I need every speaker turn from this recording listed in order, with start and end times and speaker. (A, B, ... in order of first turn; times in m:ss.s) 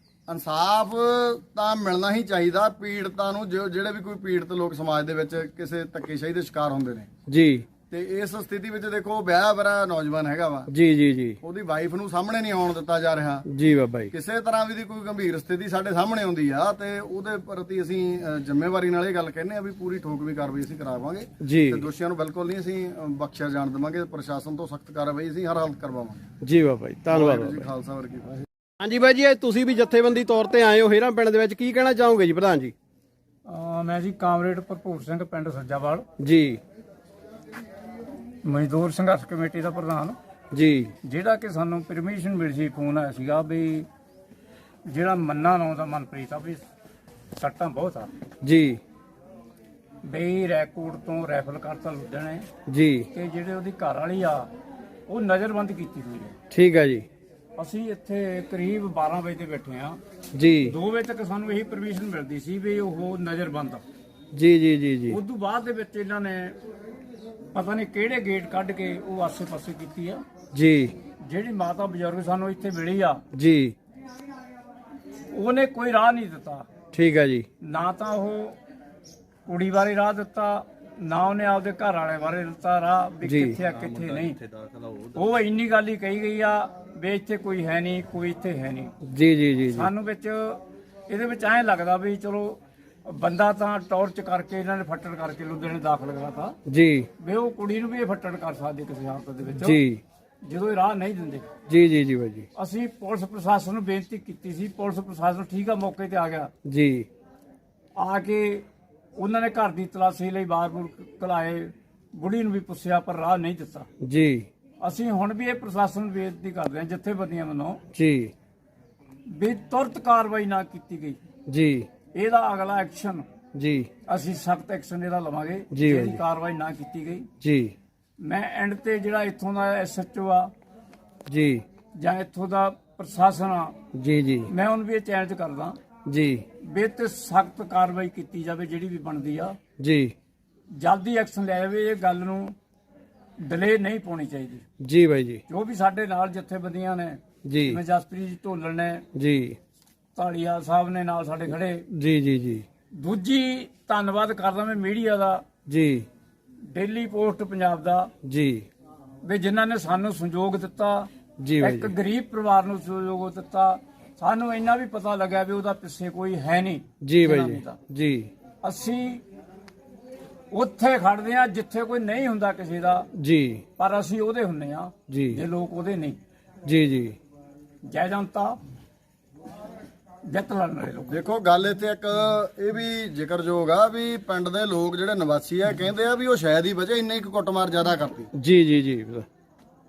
0:00.3-0:07.1 A
0:07.3-0:07.7 B
0:07.9-0:10.7 A
0:10.7-0:11.4 B
0:11.4-0:13.4 A
0:13.4-0:14.1 B
0:14.1-0:26.2 A
0:21.4-0:21.9 B
0:26.4-0:27.6 B
0:27.1-0:28.4 A
0:28.8-0:32.7 B
0:33.5-0:36.0 C
0:36.2-0:36.6 B
0:38.4-0:40.2 C
0:40.5-0:40.9 B
0:41.0-0:43.8 C
0:44.9-0:46.6 C
0:47.4-0:48.1 C
0:48.4-0:48.8 B
0:50.0-0:52.5 C
0:52.7-0:53.1 B
0:53.1-0:54.5 C
0:55.1-0:56.3 C
0:56.5-0:57.1 B
0:57.6-1:00.0 C
1:00.3-1:00.7 B
1:00.7-1:03.8 C
1:04.3-1:05.2 B
1:05.1-1:06.6 C
1:07.5-1:10.2 C
1:10.5-1:10.9 B
1:11.2-1:13.2 C
1:13.3-1:13.7 B
1:15.3-1:16.6 C
1:16.9-1:17.4 B
1:17.6-1:18.6 C
1:19.5-1:24.4 C
1:23.2-1:23.6 B
1:24.9-1:28.9 C
1:29.0-1:29.9 B
1:29.7-1:36.6 C
1:36.7-1:37.1 B
1:37.2-1:39.8 C
1:39.6-1:40.0 B
1:40.4-1:41.5 C
1:41.7-1:42.5 B
1:42.5-1:46.5 C
1:46.6-1:47.1 B
1:48.0-1:48.6 C
1:49.2-1:53.9 C
1:54.0-1:54.5 B
1:54.8-1:57.8 C
1:57.9-1:58.3 B
1:59.3-2:01.2 C
2:01.5-2:01.9 B
2:02.1-2:03.2 C
2:03.5-2:03.9 B
2:04.1-2:07.3 C
2:05.7-2:06.2 B
2:07.4-2:07.7 B
2:08.2-2:10.5 C
2:11.3-2:11.6 B
2:12.0-2:13.7 C
2:13.9-2:14.5 B
2:14.5-2:15.8 C
2:16.0-2:16.4 B
2:16.6-2:19.6 C
2:19.8-2:20.1 B
2:20.7-2:22.5 C
2:23.4-2:24.6 C
2:24.8-2:25.4 B
2:25.5-2:29.0 C
2:27.5-2:27.8 B
2:29.1-2:29.6 B
2:30.2-2:31.8 C
2:31.9-2:32.6 B
2:32.9-2:35.4 C
2:35.7-2:36.1 B
2:36.7-2:38.1 C
2:38.2-2:38.7 B
2:39.2-2:41.1 C
2:41.4-2:41.9 B
2:41.6-2:47.8 C
2:47.0-2:48.3 B
2:48.6-2:49.2 C
2:50.5-2:53.1 C
2:53.2-2:53.6 B
2:53.8-2:56.2 C
2:55.1-2:55.4 B
2:56.6-2:57.2 B
2:57.9-2:58.6 C
3:00.3-3:01.2 C
3:01.1-3:08.3 A
3:08.3-3:09.2 B